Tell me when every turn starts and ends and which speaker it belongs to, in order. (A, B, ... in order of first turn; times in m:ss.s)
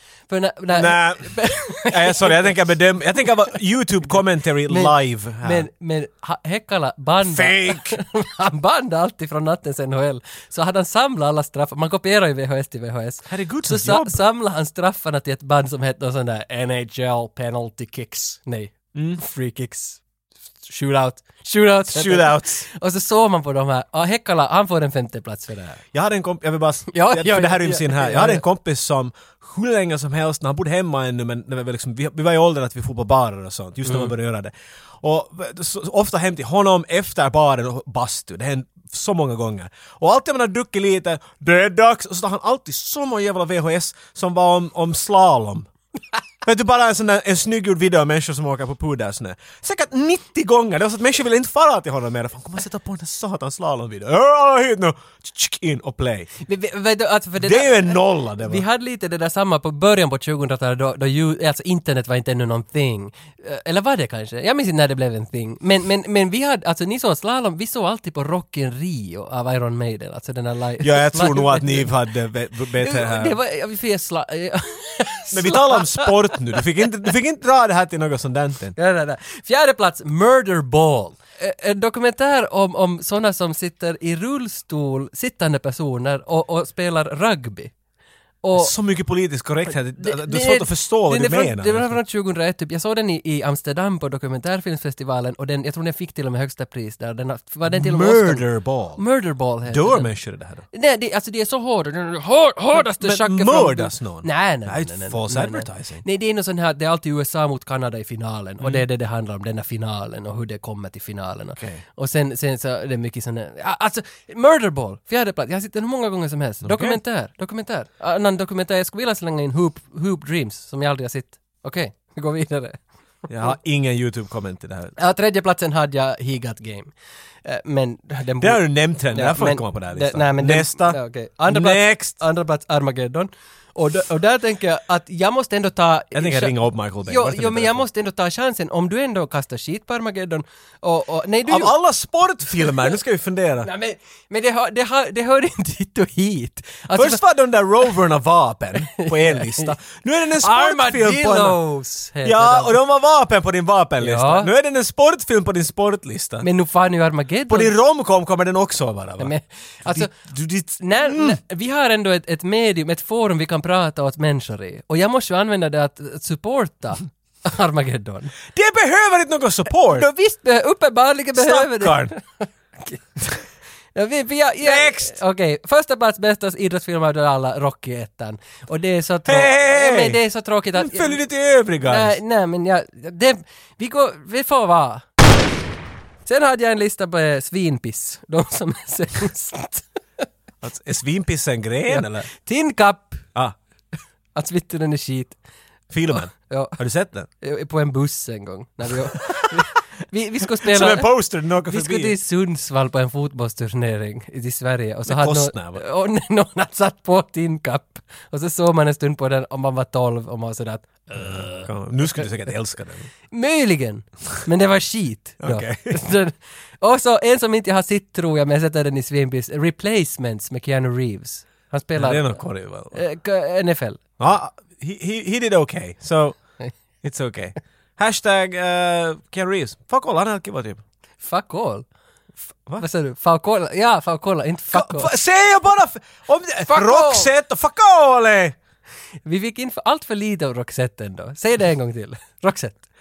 0:00.3-0:02.6 A
0:00.7-0:05.7 B
0:04.7-0:20.0 A
0:07.2-0:08.0 B
0:13.3-0:14.2 B
0:19.0-0:19.2 B
0:20.6-0:25.8 A
0:21.9-0:22.6 B
0:25.9-0:45.7 B
0:26.9-0:28.4 A
0:33.9-0:34.1 A
0:46.4-0:56.3 B
0:56.4-1:11.9 A
0:57.4-0:58.6 B
1:10.8-1:13.4 B
1:12.8-1:16.6 A
1:15.3-1:18.7 B
1:18.8-1:27.7 A
1:28.4-1:28.7 A
1:28.6-1:32.0 B
1:30.0-1:38.5 A
1:37.7-1:39.0 B
1:39.0-1:40.1 A
1:39.6-1:40.6 B
1:40.7-2:02.8 A
1:42.7-1:46.0 B
1:51.6-1:51.8 B
1:56.6-1:57.0 B
2:03.3-2:05.0 B
2:05.0-2:06.9 A
2:07.4-2:16.5 A
2:08.4-2:12.2 B
2:16.1-2:17.8 B
2:17.0-2:21.7 A
2:21.5-2:23.7 B
2:23.6-2:27.2 A
2:26.9-2:31.6 B
2:28.9-2:29.8 A
2:30.4-2:32.8 A
2:32.2-2:36.5 B
2:34.0-2:34.5 A
2:36.4-2:37.7 A
2:37.5-2:39.3 B
2:39.2-2:40.1 A
2:39.9-2:41.4 B
2:40.8-2:48.3 A
2:48.5-2:50.1 B
2:49.9-2:53.0 A
2:51.4-2:52.1 B
2:54.0-3:01.2 A
2:54.6-2:55.2 B
2:59.3-3:00.2 B
3:00.8-3:02.2 B
3:01.8-3:05.0 A
3:06.3-3:10.2 A
3:10.6-3:12.3 B
3:11.9-3:13.3 A
3:14.4-3:15.4 A
3:15.9-3:17.3 B
3:16.1-3:16.8 A
3:17.4-3:21.1 A
3:19.1-3:19.7 B
3:20.6-3:22.2 B
3:21.7-3:32.2 A
3:25.1-3:25.8 B
3:31.1-3:33.1 B
3:33.3-3:42.4 A
3:35.4-3:36.0 B
3:42.0-3:43.0 B
3:42.9-3:44.0 A
3:44.2-3:46.4 B
3:47.0-3:50.8 B
3:51.2-3:51.9 A
3:52.8-3:55.2 A
3:54.7-3:58.6 B
3:56.7-3:57.3 A
3:59.3-4:02.8 A